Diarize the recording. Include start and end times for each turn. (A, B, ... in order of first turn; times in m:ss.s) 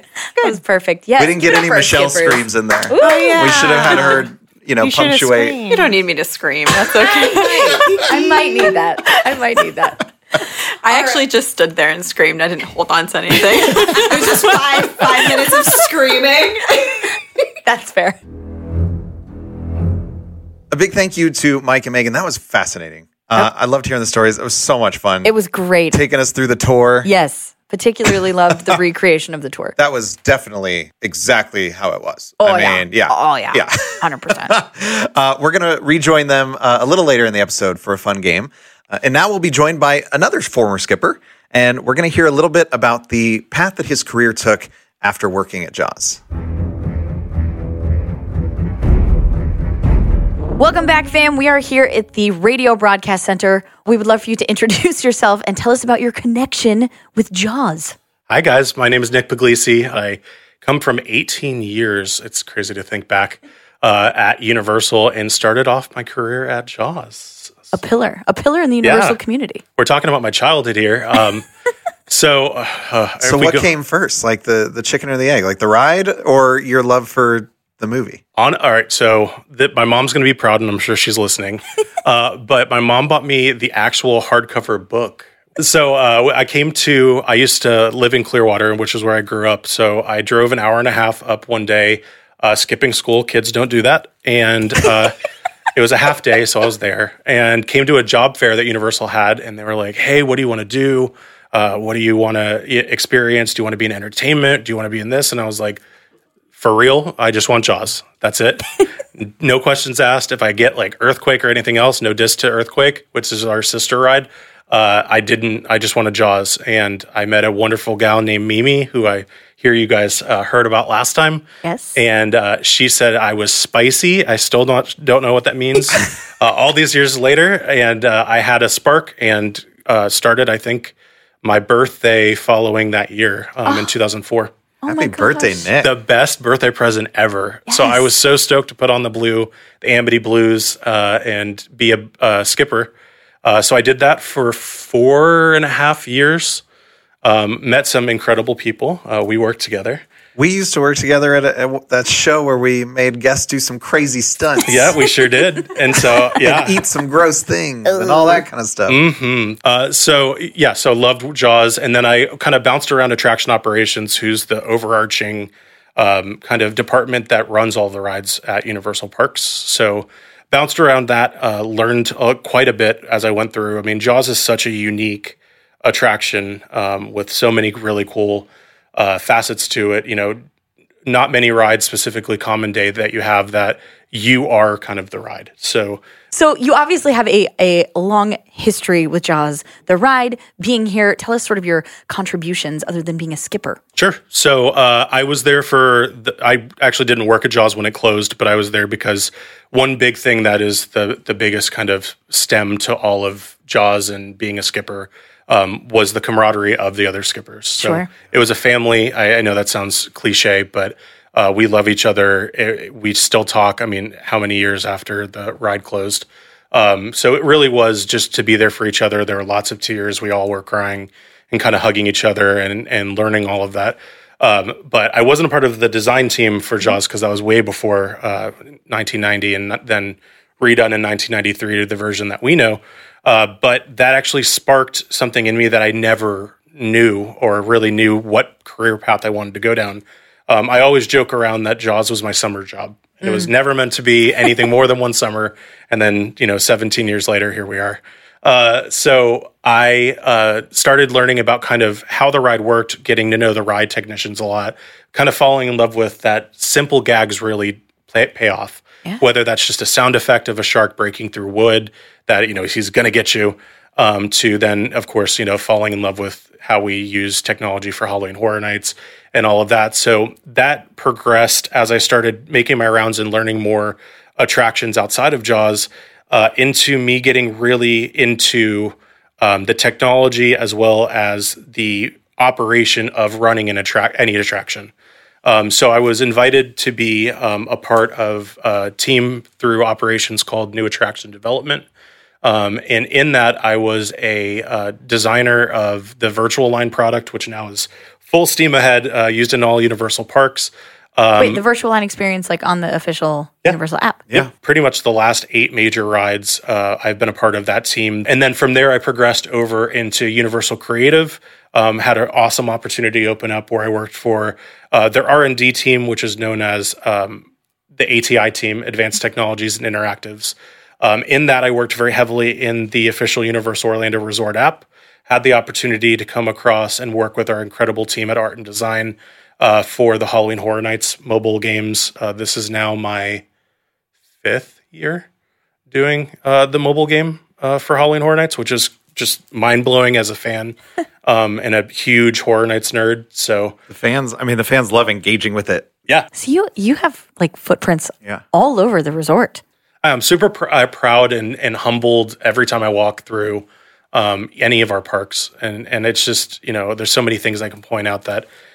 0:00.4-0:04.3 A
0:01.2-0:05.6 B
0:03.0-0:04.3 C
0:04.8-0:06.0 C
0:05.7-0:07.9 D
0:06.7-0:11.4 A
0:06.8-0:08.9 C
0:10.8-0:15.7 D
0:13.3-0:14.6 A
0:13.8-0:17.1 C
0:17.6-0:18.2 A
0:20.7-0:25.3 B
0:25.2-0:26.0 A
0:25.9-0:27.1 B
0:27.0-0:29.8 A
0:29.8-0:46.2 B
0:32.4-0:34.6 A
0:50.6-0:58.0 A
0:58.3-1:07.6 E
1:07.7-1:09.6 A
1:08.8-1:09.2 E
1:09.8-1:11.4 E
1:12.1-1:13.7 E
1:13.2-1:18.2 B
1:18.4-1:35.1 E
1:35.7-1:45.8 E
1:46.6-2:14.5 E
2:01.6-2:02.0 A
2:14.8-2:15.7 A
2:14.8-2:16.0 B
2:15.8-2:22.9 E
2:17.7-2:18.1 A
2:23.4-2:26.6 E
2:27.2-2:30.0 E
2:30.4-2:35.0 B
2:34.7-2:36.8 E
2:36.4-2:39.0 B
2:38.9-3:00.4 E
3:01.0-3:06.0 E
3:06.3-3:13.8 A
3:14.0-4:44.9 E
3:27.8-3:28.1 A
4:03.2-4:03.5 A
4:45.4-4:51.9 E
4:52.4-5:01.6 E
5:01.4-5:04.2 A
5:04.3-5:33.4 E
5:34.4-5:35.3 E
5:35.9-5:43.8 E
5:43.9-5:45.9 B
5:46.3-5:49.6 A
5:50.0-5:58.5 E